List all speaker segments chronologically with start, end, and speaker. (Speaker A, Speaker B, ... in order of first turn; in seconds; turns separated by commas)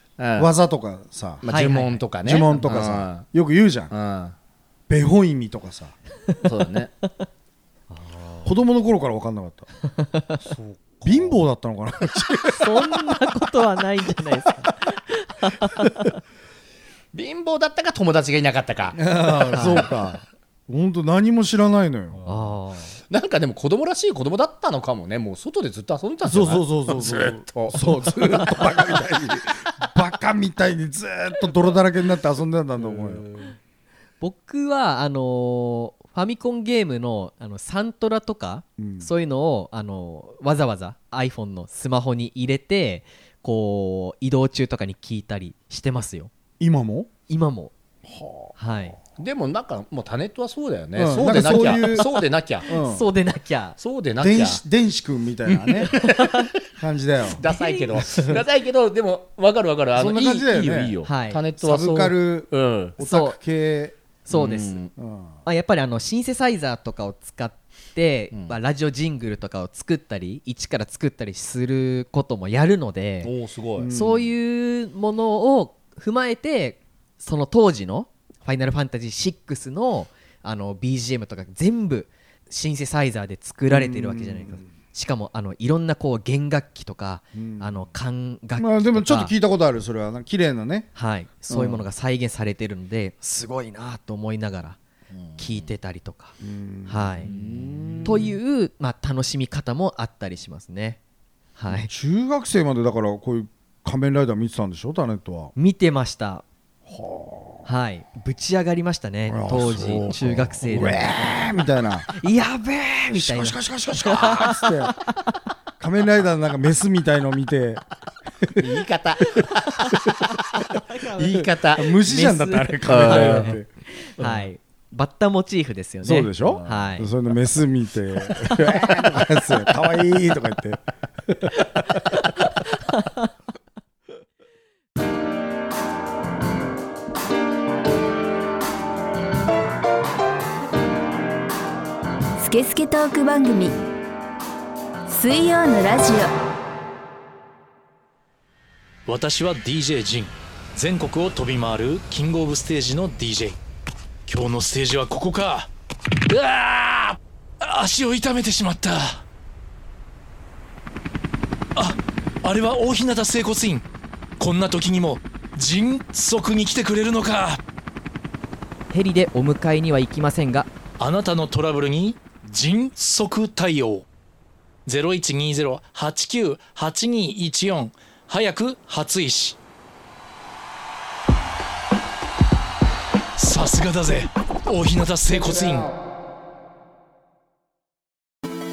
Speaker A: 0.2-0.5, Speaker B: 0.4-1.4, Speaker A: 1.4-3.3, Speaker C: 1.5-2.0, Speaker B: 2.2-3.9, Speaker A: 3.9-4.3, Speaker B: 4.9-5.9, Speaker A: 6.4-6.9, Speaker C: 7.9-8.5, Speaker B: 8.4-9.7, Speaker C: 9.9-10.3, Speaker A: 10.4-11.4, Speaker B: 11.0-13.2, Speaker C: 12.6-16.1, Speaker A: 17.1-19.9, Speaker B: 19.0-22.2, Speaker C: 19.5-19.9, Speaker C: 22.3-22.9, Speaker A: 23.1-29.1, Speaker B: 26.2-33.2, Speaker A: 32.8-33.5, Speaker C: 34.2-46.3, Speaker B: 38.8-39.1, Speaker B: 46.6-47.1, Speaker C: 47.3-47.7, Speaker B: 48.1-48.5, Speaker C: 48.6-49.0, Speaker A: 49.2-52.7, Speaker B: 51.0-52.1, Speaker C: 51.3-53.8, Speaker B: 52.7-53.0, Speaker A: 53.8-54.6, Speaker B: 54.2-56.0, Speaker A: 55.5-56.4, Speaker C: 55.9-56.5, Speaker B: 56.8-57.4, Speaker A: 57.4-63.0, Speaker C: 57.5-58.4, Speaker B: 59.9-61.0, Speaker C: 61.0-61.4, Speaker B: 61.6-64.0, Speaker C: 63.0-63.4, Speaker C: 64.3-64.8, Speaker A: 64.3-64.9, Speaker B: 65.0-65.3, Speaker C: 65.5-73.3, Speaker A: 73.2-73.9, Speaker B: 73.8-74.3, Speaker C: 73.9-89.3, Speaker B: 83.7-84.7, Speaker B: 87.3-87.8, Speaker B: 88.6-90.9, Speaker C: 91.0-94.8, Speaker B: 91.5-91.8, Speaker A: 95.1-95.7, Speaker C: 95.4-96.3, Speaker B: 96.4-98.3, Speaker C: 96.9-97.3, Speaker A: 97.3-98.3, Speaker C: 98.0-101.0, Speaker C: 101.6-101.9, Speaker B: 101.7-105.5, Speaker C: 105.6-106.4, Speaker B: 106.9-107.7, Speaker C: 107.7-111.4, Speaker B: 109.3-112.1, Speaker C: 112.1-115.3, Speaker B: 113.1-115.0, Speaker B: 115.8-117.8, Speaker B: 118.4-118.7, Speaker A: 118.6-120.0, Speaker C: 120.7-121.3, Speaker A: 121.2-122.0, Speaker B: 121.7-123.7, Speaker C: 122.0-127.1, Speaker A: 122.9-123.5, Speaker B: 126.0-131.6, Speaker A: 126.5-126.8, Speaker C: 132.1-133.3, Speaker D: 142.4-143.8, Speaker D: 145.1-146.3, Speaker E: 149.1-153.6, Speaker E: 154.3-155.7, Speaker E: 156.3-159.2, Speaker E: 161.8-163.8, Speaker E: 164.4-167.6, Speaker C: 168.9-170.7, Speaker E: 171.0-174.1, Speaker E: 174.9-179.6, Speaker E: 183.4-185.9